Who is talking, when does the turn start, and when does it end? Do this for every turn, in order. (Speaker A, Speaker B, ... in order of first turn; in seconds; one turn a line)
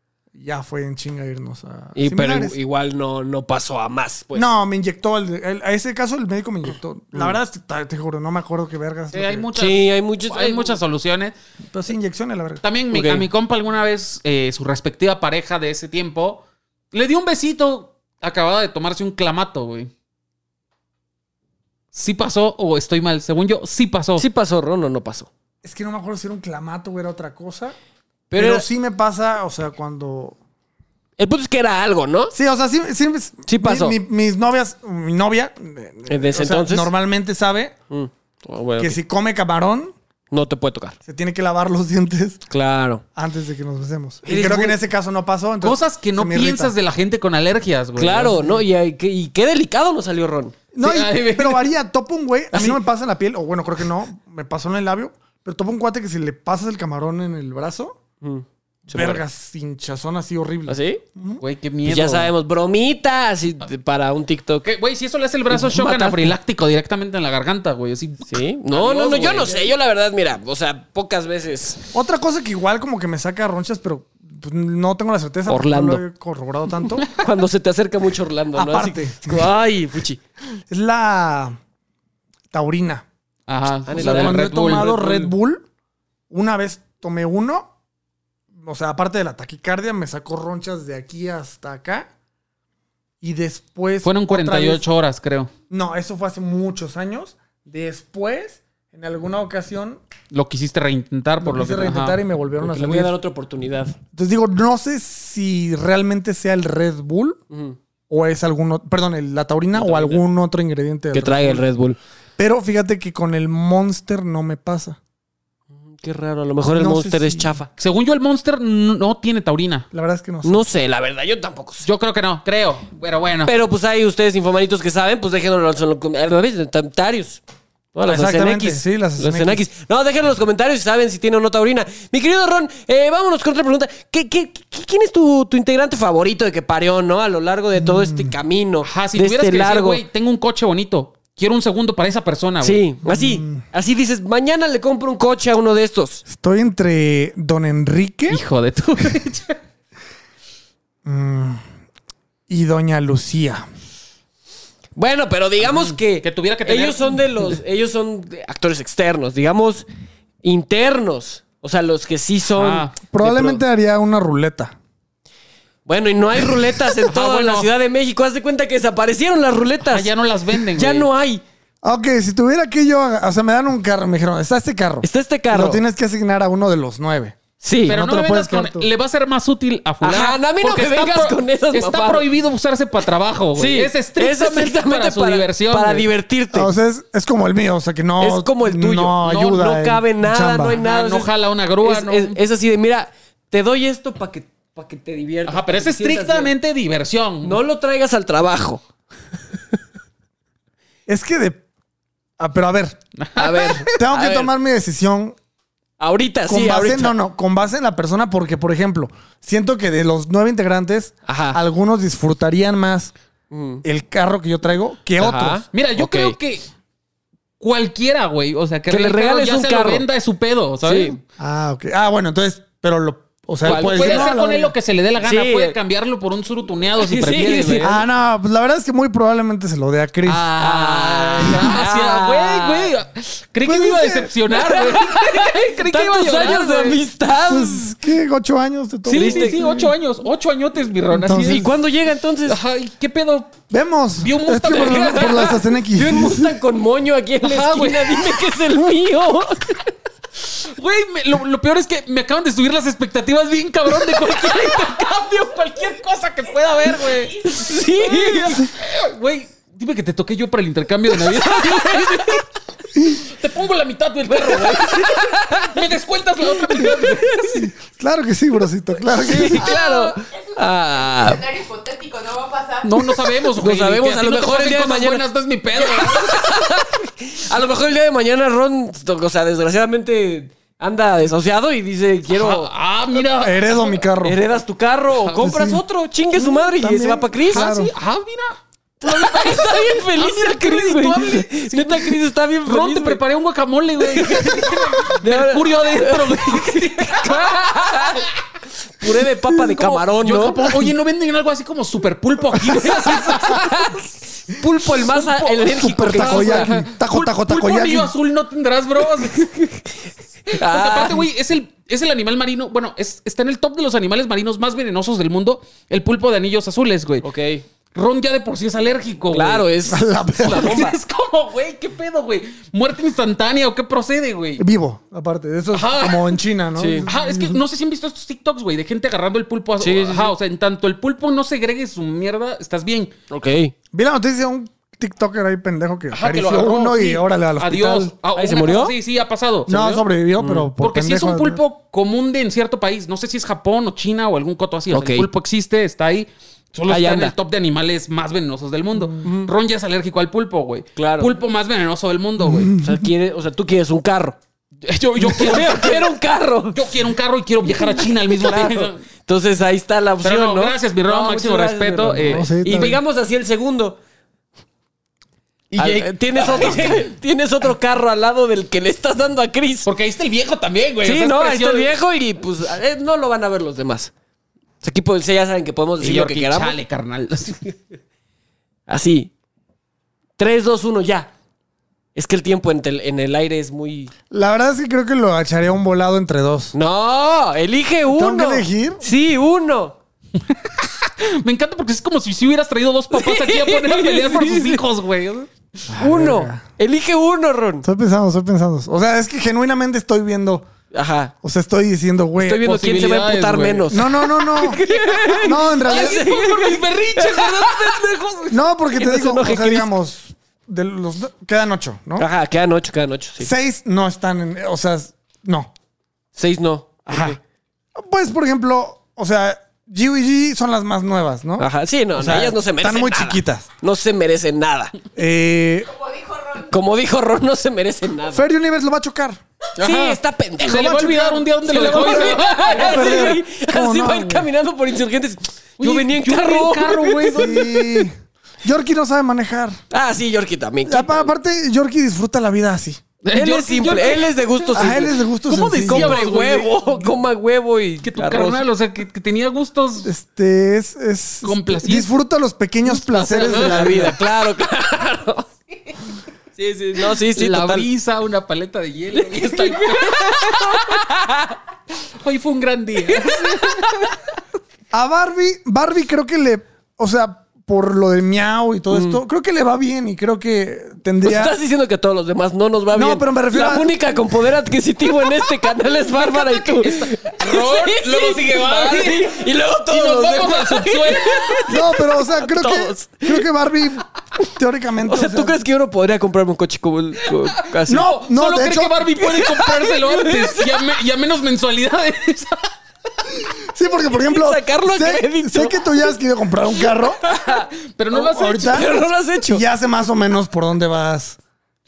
Speaker A: 0.3-2.6
Speaker B: 1.9-4.5
Speaker A: 4.3-9.5
Speaker C: 9.1-11.3
Speaker B: 9.6-10.8
Speaker A: 11.7-12.6
Speaker C: 12.6-19.9
Speaker B: 12.9-13.3
Speaker C: 21.9-24.2
Speaker B: 24.2-25.3
Speaker A: 25.6-27.7
Speaker B: 28.3-28.6
Speaker A: 28.3-30.4
Speaker B: 31.2-32.3
Speaker A: 32.3-37.8
Speaker B: 33.5-34.0
Speaker B: 36.1-36.9
Speaker B: 37.9-39.0
Speaker A: 38.8-39.9
Speaker B: 40.3-41.0
Speaker A: 41.0-42.4
Speaker B: 42.5-43.0
Speaker A: 43.1-46.7
Speaker B: 44.2-44.8
Speaker C: 45.6-48.4
Speaker B: 48.0-50.5
Speaker A: 50.7-58.0
Speaker C: 50.8-51.7
Speaker B: 52.5-52.8
Speaker B: 58.2-59.2
Speaker A: 58.9-61.4
Speaker B: 60.7-61.0
Speaker C: 61.4-62.3
Speaker B: 61.8-64.7
Speaker C: 64.6-69.7
Speaker B: 65.5-66.3
Speaker B: 68.3-71.8
Speaker A: 71.9-77.1
Speaker B: 75.5-76.0
Speaker B: 77.1-80.2
Speaker A: 78.5-79.5
Speaker A: 80.7-81.6
Speaker A: 82.5-83.0
Speaker C: 83.5-85.3
Speaker B: 83.9-85.2
Speaker A: 83.9-85.6
Speaker A: 86.3-87.7
Speaker A: 88.5-92.1
Speaker A: 93.2-94.8
Speaker C: 94.0-95.5
Speaker A: 95.7-100.0
Speaker C: 100.3-102.2
Speaker A: 101.4-103.1
Speaker B: 102.6-104.0
Speaker A: 104.1-107.4
Speaker B: 107.5-107.8
Speaker A: 108.1-111.6
Speaker B: 109.7-110.2
Speaker B: 111.1-112.0
Speaker A: 112.4-115.0
Speaker B: 115.9-117.7
Speaker A: 116.7-117.6
Speaker C: 117.8-119.9
Speaker A: 119.9-120.7
Speaker B: 120.4-121.8
Speaker C: 121.8-123.5
Speaker B: 123.5-127.4
Speaker B: 127.9-140.0
Speaker A: 128.1-129.6
Speaker A: 137.8-138.3
Speaker C: 138.8-142.8
Speaker B: 142.6-146.2
Speaker A: 143.0-143.6
Speaker A: 146.3-148.4
Speaker C: 148.3-149.6
Speaker A: 151.0-151.6
Speaker A: 152.5-153.7
Speaker B: 154.9-159.9
Speaker C: 155.6-157.3
Speaker B: 160.4-163.6
Speaker C: 162.5-163.0
Speaker A: 163.1-164.7
Speaker B: 165.8-170.1
Speaker C: 167.0-167.7
Speaker C: 169.9-171.1
Speaker B: 170.7-171.4
Speaker A: 171.8-178.9
Speaker B: 175.0-175.8
Speaker B: 177.6-178.0
Speaker C: 177.8-186.1
Speaker B: 180.0-182.3
Speaker B: 183.6-186.7
Speaker A: 186.5-190.8
Speaker B: 188.2-191.3
Speaker C: 189.2-189.6
Speaker C: 190.7-192.4
Speaker B: 191.8-196.5
Speaker C: 195.4-197.6
Speaker B: 197.4-198.8
Speaker A: 201.1-201.6
Speaker A: 202.4-203.0
Speaker C: 203.2-203.9
Speaker B: 203.3-204.5
Speaker A: 203.9-205.3
Speaker B: 206.0-207.2
Speaker A: 206.5-213.1
Speaker B: 211.2-211.6
Speaker B: 213.5-213.8
Speaker A: 213.8-215.6
Speaker B: 215.2-216.3
Speaker C: 215.7-216.7
Speaker C: 217.6-221.2
Speaker B: 218.9-220.0
Speaker B: 220.8-221.2
Speaker A: 221.4-224.7
Speaker B: 223.6-224.3
Speaker C: 223.6-227.9
Speaker B: 225.2-225.8
Speaker B: 227.0-228.0
Speaker A: 227.8-230.5
Speaker C: 230.2-237.0
Speaker B: 230.6-232.9
Speaker A: 233.6-234.3
Speaker B: 234.5-237.9
Speaker A: 237.5-239.8
Speaker B: 239.1-239.8
Speaker C: 239.1-241.7
Speaker A: 241.1-241.7
Speaker B: 241.3-242.6
Speaker C: 242.4-243.6
Speaker A: 243.7-246.6
Speaker C: 244.2-245.6
Speaker B: 244.8-249.9
Speaker C: 247.4-248.6
Speaker C: 250.4-262.4
Speaker B: 254.3-254.8
Speaker B: 257.3-258.7
Speaker B: 261.1-262.4
Speaker C: 263.1-267.6
Speaker B: 264.3-265.8
Speaker B: 266.5-267.7
Speaker A: 267.6-269.7
Speaker B: 269.2-271.4
Speaker C: 269.6-269.9
Speaker D: 269.7-273.3
Speaker C: 272.8-276.4
Speaker B: 273.5-275.2
Speaker B: 275.7-282.7
Speaker C: 282.3-284.0
Speaker A: 283.4-284.4
Speaker B: 284.2-287.7
Speaker C: 285.2-285.5
Speaker A: 285.4-285.8
Speaker A: 286.3-287.9
Speaker C: 287.5-298.4
Speaker B: 289.0-293.2
Speaker B: 294.0-298.3
Speaker B: 299.0-300.7
Speaker C: 299.5-303.7
Speaker A: 302.7-303.1
Speaker B: 302.9-306.8
Speaker C: 305.0-309.6
Speaker A: 305.7-308.1
Speaker B: 309.4-309.8
Speaker C: 310.5-317.2
Speaker B: 310.5-311.2
Speaker B: 317.2-317.6
Speaker C: 317.9-319.7
Speaker B: 319.3-321.0
Speaker A: 319.9-320.8
Speaker C: 320.4-324.6
Speaker A: 324.6-327.6
Speaker C: 325.7-326.4
Speaker B: 326.8-327.1
Speaker C: 327.1-333.1
Speaker B: 329.8-330.3
Speaker B: 333.3-333.7
Speaker A: 333.9-338.1
Speaker C: 336.1-340.0
Speaker B: 338.3-338.9
Speaker A: 339.7-341.6
Speaker B: 340.4-340.7
Speaker C: 340.8-352.7
Speaker B: 344.9-345.3
Speaker B: 346.9-347.3
Speaker A: 348.9-349.2
Speaker B: 349.2-349.5
Speaker B: 350.9-351.3
Speaker A: 352.4-353.1
Speaker B: 352.8-354.4
Speaker C: 354.8-356.1
Speaker B: 355.2-356.9
Speaker C: 356.7-359.0
Speaker B: 357.6-364.0
Speaker C: 360.2-362.8
Speaker A: 362.1-363.0
Speaker C: 365.7-367.1
Speaker B: 365.8-369.9
Speaker C: 369.8-371.9
Speaker B: 371.0-374.1
Speaker B: 374.8-376.8
Speaker C: 376.0-377.7
Speaker B: 378.9-379.3
Speaker B: 380.4-381.3
Speaker B: 382.1-384.1
Speaker A: 384.3-386.7
Speaker B: 386.7-390.0
Speaker A: 388.1-389.0
Speaker C: 390.5-395.5
Speaker B: 393.1-394.8
Speaker A: 395.9-396.6
Speaker B: 396.0-397.9
Speaker A: 397.8-400.7
Speaker B: 400.9-401.3
Speaker A: 401.4-402.7
Speaker B: 402.4-408.0
Speaker C: 402.6-404.0
Speaker A: 403.9-404.8
Speaker C: 404.8-408.6
Speaker A: 405.4-406.2
Speaker A: 408.5-412.3
Speaker B: 408.9-409.9
Speaker B: 412.2-413.5
Speaker A: 413.4-415.7
Speaker B: 416.4-417.4
Speaker A: 417.1-417.4
Speaker A: 417.9-423.7
Speaker B: 421.6-424.9
Speaker A: 425.1-425.9
Speaker B: 426.5-428.4
Speaker A: 428.3-429.4
Speaker C: 429.8-433.4
Speaker B: 429.8-431.1
Speaker A: 430.7-434.5
Speaker B: 431.6-437.9
Speaker C: 435.8-437.8
Speaker A: 437.3-439.8
Speaker B: 439.9-441.3
Speaker A: 440.9-443.0
Speaker C: 443.2-447.1
Speaker B: 443.3-445.1
Speaker A: 444.7-446.2
Speaker B: 445.8-448.6
Speaker C: 448.0-450.1
Speaker A: 450.0-454.2
Speaker C: 451.4-452.1
Speaker C: 452.9-454.1
Speaker B: 453.4-455.5
Speaker B: 456.6-457.9
Speaker C: 457.0-461.0
Speaker B: 459.1-461.6
Speaker C: 462.1-464.1
Speaker B: 463.1-464.2
Speaker A: 464.9-471.6
Speaker B: 468.9-469.2
Speaker B: 471.2-483.4
Speaker A: 472.9-473.9
Speaker C: 476.1-481.7
Speaker A: 481.7-485.6
Speaker B: 485.1-488.1
Speaker C: 487.3-492.7
Speaker A: 487.9-489.1
Speaker B: 489.2-490.9
Speaker A: 493.3-497.2
Speaker B: 494.1-495.9
Speaker B: 497.2-497.7
Speaker C: 497.4-498.9
Speaker A: 498.1-498.9
Speaker B: 498.6-499.6
Speaker A: 499.5-501.4